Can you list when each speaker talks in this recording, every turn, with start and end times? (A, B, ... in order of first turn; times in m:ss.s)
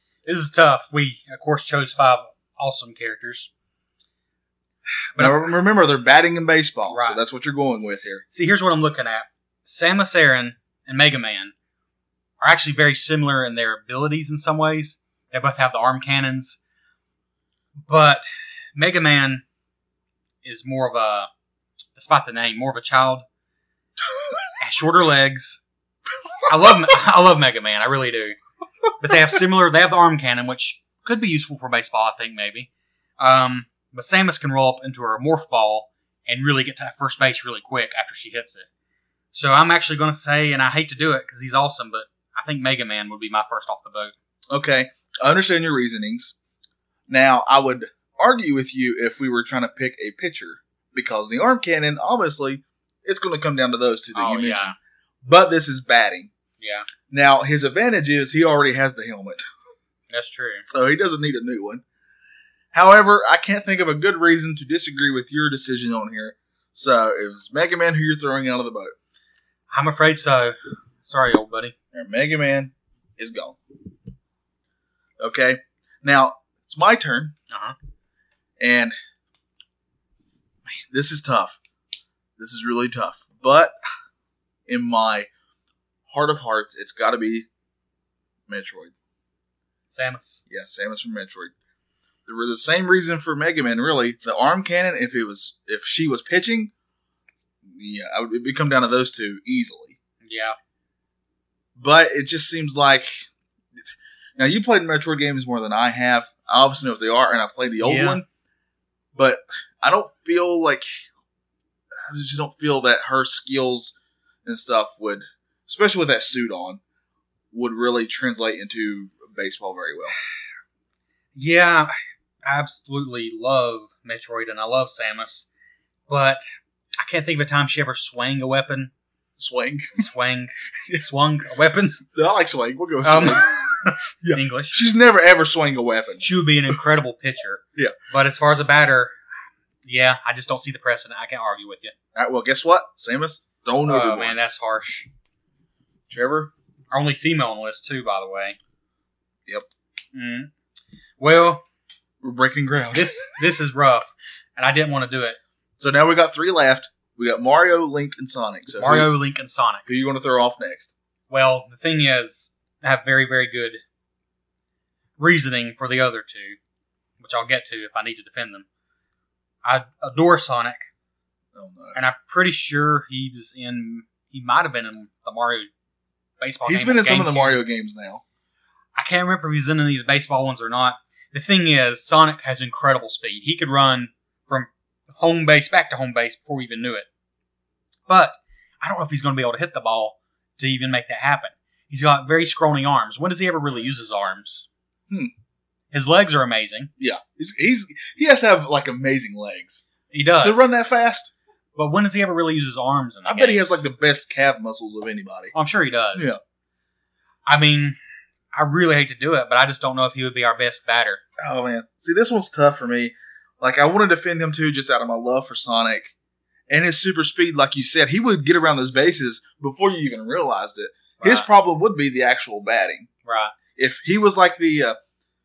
0:00.2-0:03.5 A
0:05.1-0:05.5 A
0:05.2-0:08.2 B
0:06.9-0:07.2 A
0:08.3-0:11.5 A
0:12.4-0:16.6 A
0:17.8-0:19.4 A
0:20.4-0:21.3 A
0:22.0-0:23.2 A
0:24.0-0:24.5 B
0:24.6-0:25.6 A
0:26.4-0:26.7 B
0:26.4-0:28.4 A
0:29.0-0:38.7 A
0:39.3-0:44.1 A
0:44.5-0:46.3 B
0:47.1-0:54.7 B
0:54.1-0:54.7 A
0:55.2-0:56.3 B
0:56.6-0:56.9 A
0:57.1-0:59.4 B
1:00.1-1:00.6 A
1:00.6-1:01.8 B
1:02.7-1:08.9 B
1:09.7-1:11.7 A
1:11.9-1:13.6 B
1:15.2-1:17.3 B
1:17.5-1:17.7 A
1:18.6-1:18.9 B
1:20.6-1:21.6 B
1:22.4-1:23.7 B
1:24.7-1:25.3 B
1:26.1-1:27.5 B
1:28.5-1:28.9 B
1:29.9-1:30.4 A
1:30.5-1:31.5 B
1:32.2-1:36.7 B
1:37.6-1:40.0 B
1:40.2-1:40.6 A
1:41.8-1:43.3 B
1:44.4-1:48.2 B
1:47.8-1:48.2 A
1:49.1-1:51.0 B
1:52.0-1:56.8 B
1:57.5-2:00.1 B
2:01.3-2:01.9 A
2:02.4-2:05.5 A
2:06.1-2:06.4 A
2:07.0-2:08.9 A
2:09.4-2:10.1 B
2:10.0-2:12.0 A
2:12.1-2:16.7 B
2:13.0-2:14.8 A
2:16.2-2:19.1 A
2:19.8-2:21.9 A
2:22.1-2:24.4 B
2:23.8-2:25.1 A
2:26.1-2:26.5 B
2:26.9-2:28.6 A
2:30.1-2:30.5 A
2:31.2-2:31.6 A
2:32.2-2:33.3 B
2:32.9-2:35.4 A
2:35.8-2:39.1 B
2:38.8-2:39.8 A
2:39.8-2:40.9 B
2:41.3-2:43.8 A
2:45.2-2:46.6 A
2:47.2-2:48.6 A
2:49.6-2:50.9 A
2:51.5-2:52.0 B
2:51.9-2:55.7 A
2:56.4-2:57.6 A
2:56.6-2:58.2 B
2:58.9-3:07.1 A
3:08.1-3:14.7 A
3:15.9-3:16.9 A
3:17.0-3:19.8 B
3:20.1-3:20.7 A
3:20.4-3:21.3 B
3:21.7-3:23.8 A
3:23.2-3:25.5 B
3:25.5-3:26.4 A
3:26.1-3:26.4 B
3:27.5-3:28.0 A
3:28.5-3:31.2 A
3:31.4-3:36.1 B
3:36.7-3:43.1 B
3:41.2-3:41.5 A
3:43.2-3:43.5 A
3:43.8-3:45.0 B